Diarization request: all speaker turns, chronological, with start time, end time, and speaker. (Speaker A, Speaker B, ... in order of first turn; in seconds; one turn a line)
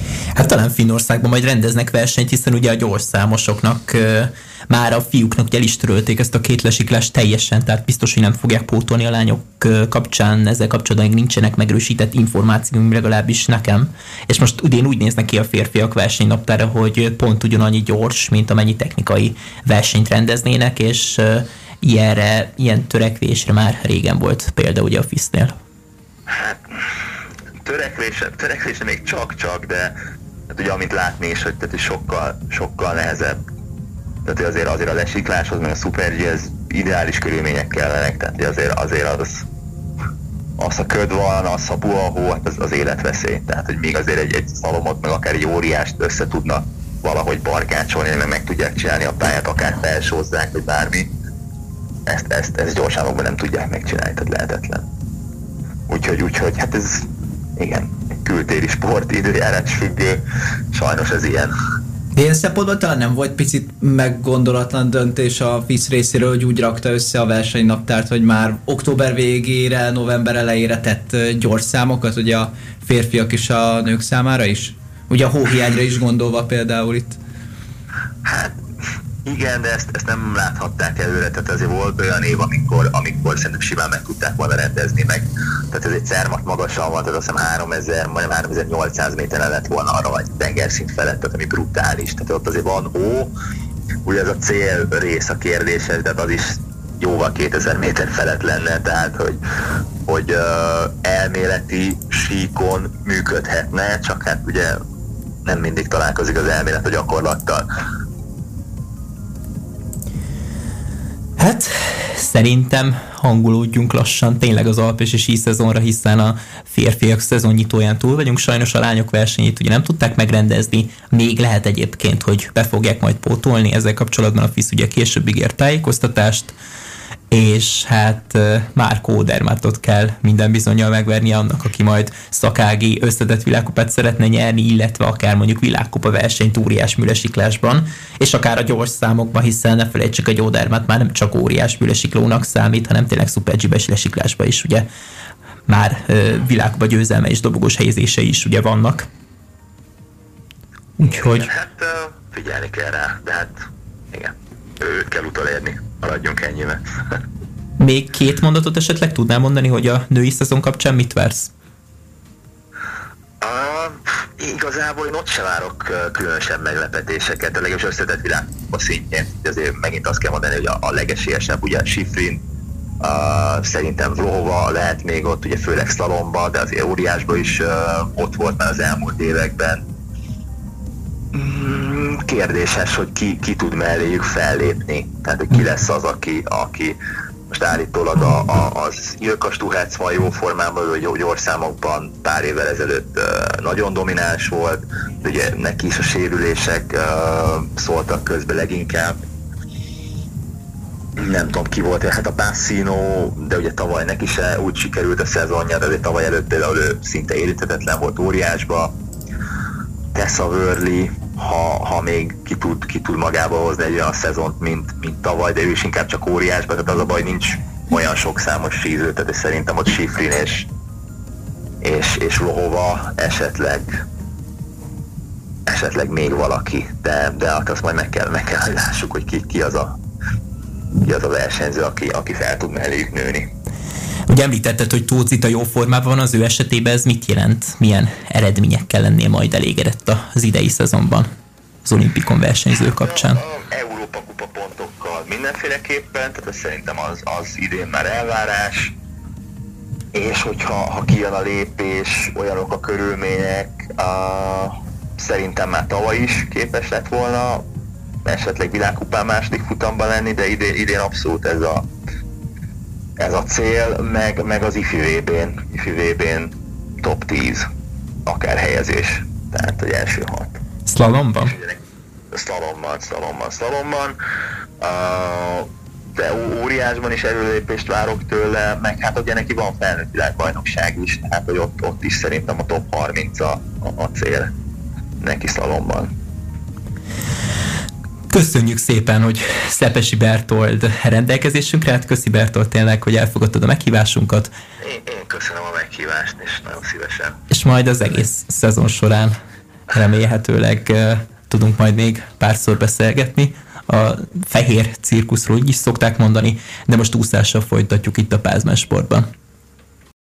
Speaker A: 0.4-25.5
Speaker B: 26.3-26.6
Speaker B: 27.6-29.9
Speaker B: 30.5-33.4
Speaker B: 34.2-39.5
Speaker B: 40.6-51.1
Speaker B: 52.1-54.9
Speaker B: 55.9-57.0
Speaker B: 57.6-60.2
Speaker B: 60.7-61.5
Speaker C: 62.1-77.2
Speaker B: 78.2-78.5
Speaker B: 79.2-93.3
Speaker B: 94.0-99.4
Speaker B: 100.0-104.8
Speaker B: 105.4-107.6
Speaker A: 111.4-126.5
Speaker A: 127.3-144.9
Speaker A: 145.7-149.1
Speaker A: 151.0-151.5
Speaker B: 151.0-153.5
Speaker B: 154.1-156.8
Speaker A: 157.8-161.5
Speaker B: 163.4-172.4
Speaker B: 173.0-179.8
Speaker B: 181.3-187.0
Speaker B: 187.5-199.1
Speaker B: 201.2-208.9
Speaker B: 210.1-220.7
Speaker B: 221.8-224.0
Speaker B: 225.7-230.0
Speaker B: 230.9-233.5
Speaker A: 234.3-241.3
Speaker A: 241.8-243.4
Speaker B: 242.9-248.9
Speaker B: 250.1-257.6
Speaker B: 258.2-261.9
Speaker B: 263.2-267.6
Speaker B: 268.2-270.6
Speaker A: 270.9-271.5
Speaker B: 271.4-271.8
Speaker B: 272.3-274.2
Speaker B: 274.8-284.5
Speaker B: 285.2-286.1
Speaker A: 288.3-294.5
Speaker B: 294.8-297.4
Speaker A: 297.5-299.4
Speaker A: 299.9-309.3